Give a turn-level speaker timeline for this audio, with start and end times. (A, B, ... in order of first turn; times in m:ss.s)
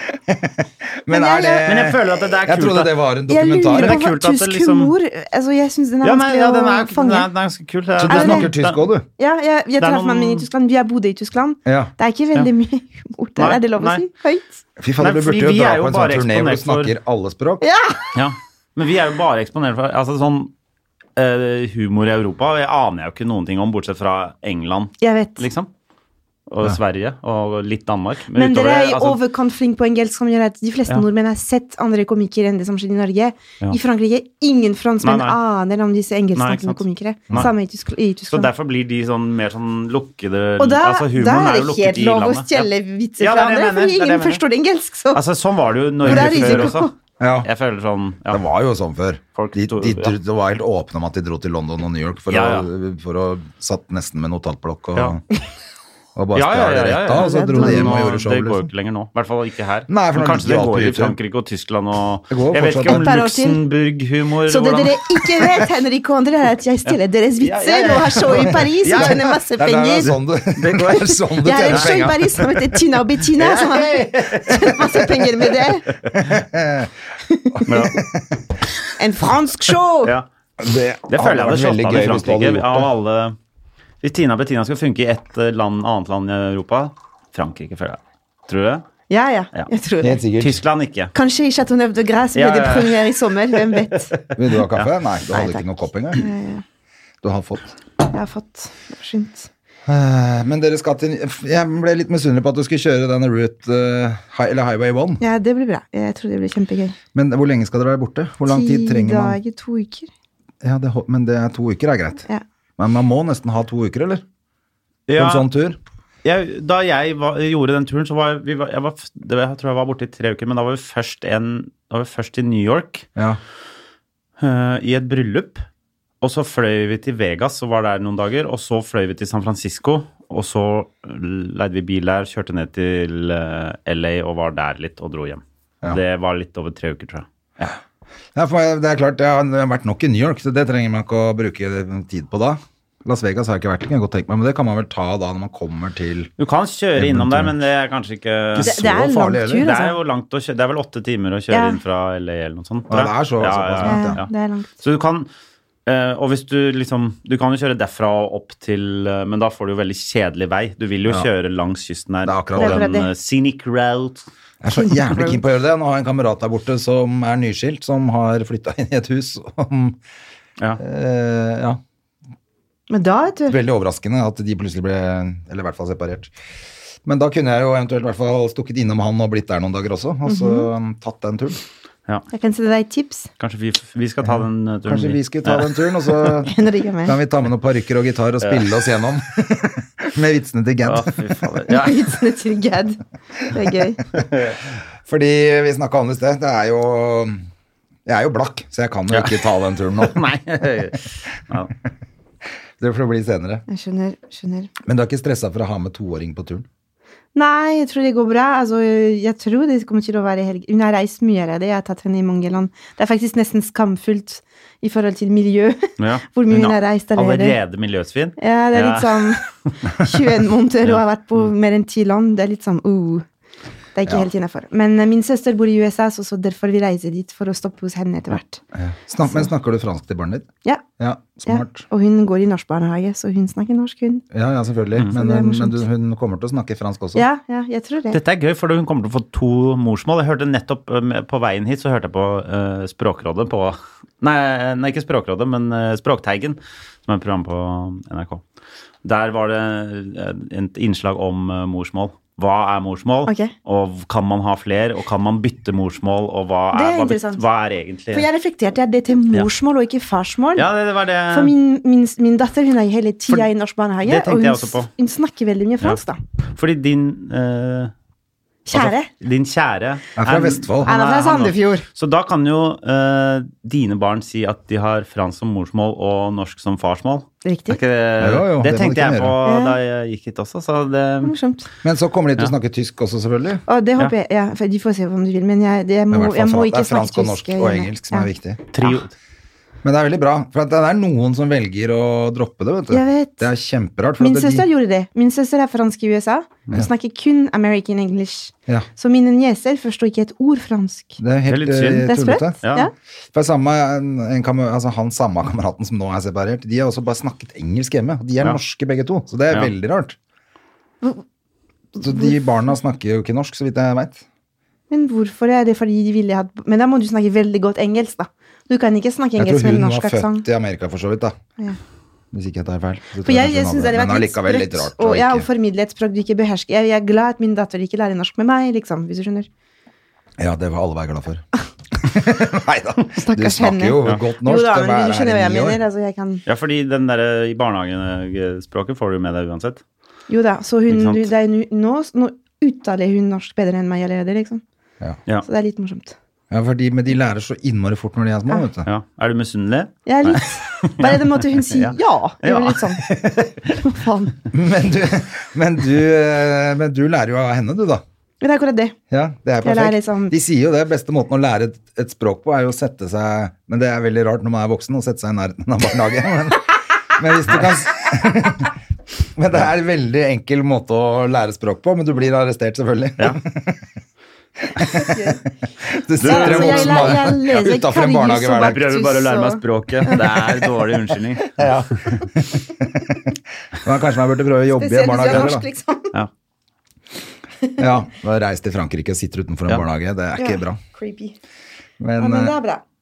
0:00.1-0:04.0 A
0:01.1-0:01.7 B
0:01.7-0:03.1 C
0:03.3-0:07.3 B
0:03.7-0:04.9 C
0:06.0-0:08.8 C
0:08.0-0:09.1 A
0:08.1-0:08.5 B
0:09.2-0:14.6 B
0:09.8-0:10.5 C
0:11.7-0:11.9 A
0:13.4-0:14.0 C
0:14.8-0:17.6 A
0:15.0-0:16.9 C
0:17.6-0:18.1 B
0:18.1-0:20.5 C
0:21.2-0:25.7 C
0:25.0-0:25.4 B
0:26.5-0:29.2 C
0:28.3-0:38.5 B
0:35.0-0:35.4 C
0:36.4-0:37.5 C
0:38.3-0:44.4 C
0:40.6-0:45.2 B
0:45.1-0:46.9 C
0:46.0-0:46.9 B
0:46.0-0:47.5 A
0:47.4-0:48.4 C
0:48.3-0:55.2 A
0:49.4-0:50.2 C
0:52.3-0:52.7 C
0:56.2-0:58.7 A
0:56.3-1:05.4 C
0:57.2-0:58.1 B
0:59.9-1:01.2 A
1:02.3-1:03.1 A
1:02.8-1:03.6 B
1:04.5-1:10.1 B
1:06.9-1:09.3 C
1:09.0-1:12.2 A
1:10.0-1:12.0 C
1:11.4-1:15.9 B
1:13.4-1:16.3 C
1:16.1-1:16.9 A
1:17.3-1:17.6 B
1:17.6-1:18.4 A
1:17.7-1:18.0 C
1:19.0-1:20.1 B
1:20.6-1:22.9 A
1:21.1-1:23.4 C
1:24.0-1:28.9 C
1:29.1-1:30.2 B
1:30.0-1:30.6 A
1:30.4-1:31.1 C
1:31.1-1:34.1 B
1:32.4-1:34.9 C
1:34.4-1:36.2 A
1:35.3-1:35.6 B
1:36.2-1:36.6 B
1:37.2-1:37.7 A
1:38.1-1:39.5 B
1:39.9-1:45.2 A
1:45.2-1:47.0 B
1:47.2-1:49.4 A
1:48.5-1:50.1 B
1:50.6-1:52.2 A
1:52.8-1:54.2 A
1:55.1-1:55.5 C
1:55.2-1:55.8 A
1:56.2-2:03.1 C
2:04.4-2:05.6 C
2:06.2-2:17.8 C
2:18.4-2:26.3 A
2:26.4-2:28.8 C
2:27.0-2:27.6 A
2:28.6-2:29.7 A
2:28.6-2:30.0 B
2:29.6-2:34.3 C
2:31.5-2:31.8 B
2:32.9-2:34.2 A
2:33.8-2:34.7 B
2:34.8-2:35.3 C
2:35.9-2:44.2 C
2:42.2-2:42.8 A
2:42.6-2:43.1 B
2:44.6-2:50.0 A
2:44.7-2:45.4 B
2:50.8-2:51.8 A
2:52.9-2:53.6 B
2:53.5-2:56.3 A
2:57.0-3:01.6 A
3:00.3-3:00.7 B
3:02.3-3:03.3 B
3:03.4-3:06.3 C
3:04.3-3:06.5 A
3:06.4-3:07.2 B
3:07.0-3:11.2 A
3:08.4-3:08.7 C
3:10.8-3:12.0 C
3:11.7-3:14.0 B
3:14.1-3:14.6 C
3:15.0-3:17.4 A
3:18.1-3:20.2 A
3:19.1-3:21.7 C
3:22.8-3:23.6 A
3:23.7-3:24.7 B
3:24.8-3:26.6 A
3:27.4-3:37.6 B
3:36.0-3:39.7 C
3:38.4-3:43.2 B
3:44.0-3:48.6 B
3:48.7-3:51.8 A
3:51.5-3:54.2 B
3:54.3-3:57.3 A
3:55.1-3:55.9 B
3:57.2-3:58.2 B
3:58.1-4:08.4 C
4:09.0-4:18.3 C
4:13.3-4:13.5 B
4:16.7-4:17.4 B
4:18.1-4:20.7 B
4:20.6-4:21.5 C
4:21.3-4:26.2 B
4:24.0-4:24.9 C
4:26.5-4:27.9 C
4:28.7-4:29.1 B
4:28.7-4:41.3 C
4:30.2-4:30.9 A
4:30.8-4:31.9 B
4:37.4-4:37.8 B
4:38.2-4:39.4 A
4:39.4-4:39.8 B
4:41.2-4:41.7 B
4:41.8-4:43.6 A
4:43.7-4:48.3 B
4:46.1-4:48.6 A
4:48.7-4:49.1 C
4:49.8-4:54.7 A
4:52.9-4:53.5 B
4:54.2-5:01.2 B
5:01.2-5:02.6 A
5:01.5-5:02.9 C
5:02.0-5:02.9 B
5:03.3-5:10.2 A
5:12.0-5:12.4 B
5:12.0-5:14.2 A
5:14.9-5:20.5 B
5:19.4-5:21.4 A
5:22.3-5:25.5 A
5:23.2-5:29.5 B
5:30.4-5:35.8 A
5:33.2-5:36.4 B
5:36.5-5:39.8 C
5:40.3-5:44.6 B
5:40.9-5:41.3 C
5:45.4-5:46.2 B
5:46.5-5:48.9 A
5:48.9-5:53.7 C
5:50.1-5:54.4 B
5:54.5-5:58.0 A
5:58.4-5:59.0 B
5:59.1-6:08.7 A
5:59.6-6:00.4 B
6:09.4-6:13.8 A
6:14.6-6:18.8 A
6:15.0-6:15.4 B
6:16.2-6:17.6 C
6:16.2-6:20.6 B
6:18.6-6:22.3 C
6:21.5-6:25.7 A
6:24.8-6:26.1 B
6:27.8-6:30.8 A
6:30.4-6:31.4 B
6:32.0-6:32.5 A
6:32.2-6:32.8 B